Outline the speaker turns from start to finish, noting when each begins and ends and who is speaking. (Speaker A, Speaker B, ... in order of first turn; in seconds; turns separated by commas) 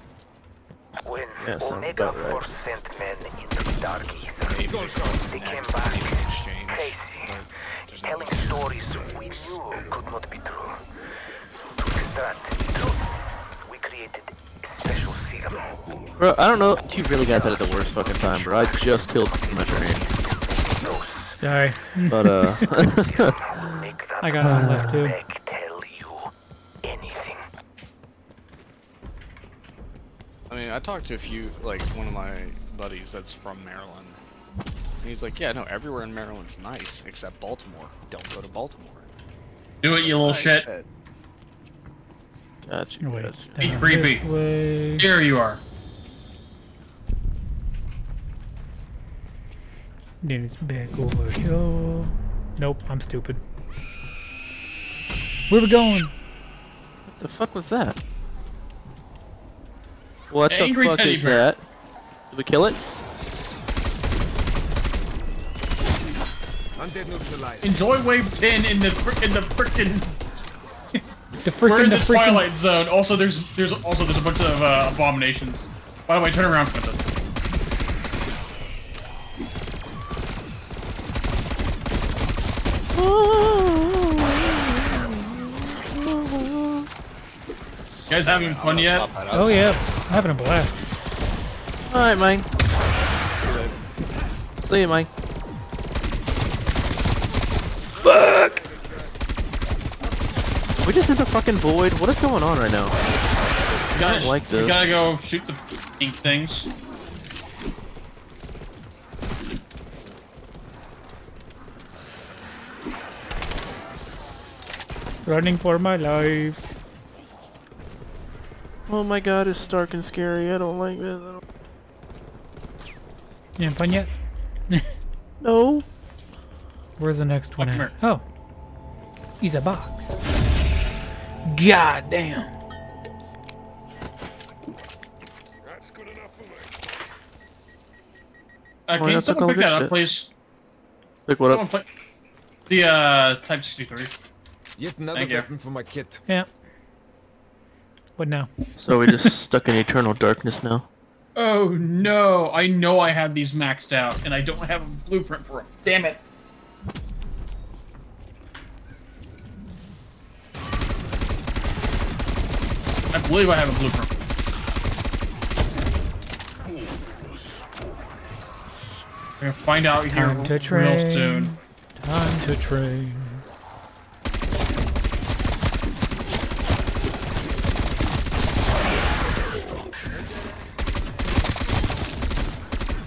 Speaker A: 1.1-4.7, Speaker B: 1.4-2.5, Speaker C: 4.4-8.8, Speaker D: 4.6-5.4, Speaker A: 5.3-10.8, Speaker A: 11.8-13.1, Speaker A: 13.6-16.2, Speaker B: 16.2-20.0, Speaker A: 17.1-21.4, Speaker E: 21.4-22.7, Speaker A: 22.0-26.3, Speaker B: 22.1-23.4, Speaker E: 24.2-25.2, Speaker B: 24.5-24.9, Speaker A: 26.8-27.4, Speaker C: 30.5-34.2, Speaker C: 35.0-39.1, Speaker F: 39.8-40.7, Speaker C: 40.0-40.9, Speaker B: 42.6-43.8, Speaker E: 43.0-45.1, Speaker F: 43.6-44.2, Speaker F: 45.0-45.6, Speaker E: 50.2-53.4, Speaker E: 55.5-56.1, Speaker B: 57.1-58.0, Speaker B: 60.3-61.6, Speaker F: 60.5-61.5, Speaker B: 62.3-62.8, Speaker D: 66.8-67.8, Speaker F: 67.6-70.3, Speaker E: 71.4-72.5, Speaker F: 71.7-77.1, Speaker B: 82.9-86.9, Speaker F: 88.1-89.1, Speaker C: 88.1-89.8, Speaker E: 89.3-90.8, Speaker B: 91.9-92.5, Speaker C: 93.4-93.7, Speaker D: 93.4-93.7, Speaker B: 94.6-95.1, Speaker D: 98.0-99.3, Speaker E: 98.0-98.6, Speaker B: 100.8-103.0, Speaker F: 103.9-106.7, Speaker B: 104.1-104.9, Speaker E: 115.2-116.7, Speaker B: 118.9-121.4, Speaker E: 123.6-124.1, Speaker B: 125.4-125.9, Speaker E: 127.0-128.2, Speaker F: 127.6-127.9, Speaker E: 129.4-130.2, Speaker E: 131.5-132.5, Speaker D: 135.6-136.7, Speaker F: 138.9-140.3, Speaker B: 138.9-139.9, Speaker B: 141.3-141.6, Speaker F: 141.5-141.8, Speaker F: 142.7-144.1, Speaker D: 144.8-146.2, Speaker F: 145.1-145.5, Speaker E: 148.2-148.5, Speaker B: 148.8-150.9, Speaker F: 151.3-156.2, Speaker F: 163.1-164.3, Speaker F: 169.4-171.5, Speaker E: 170.1-173.4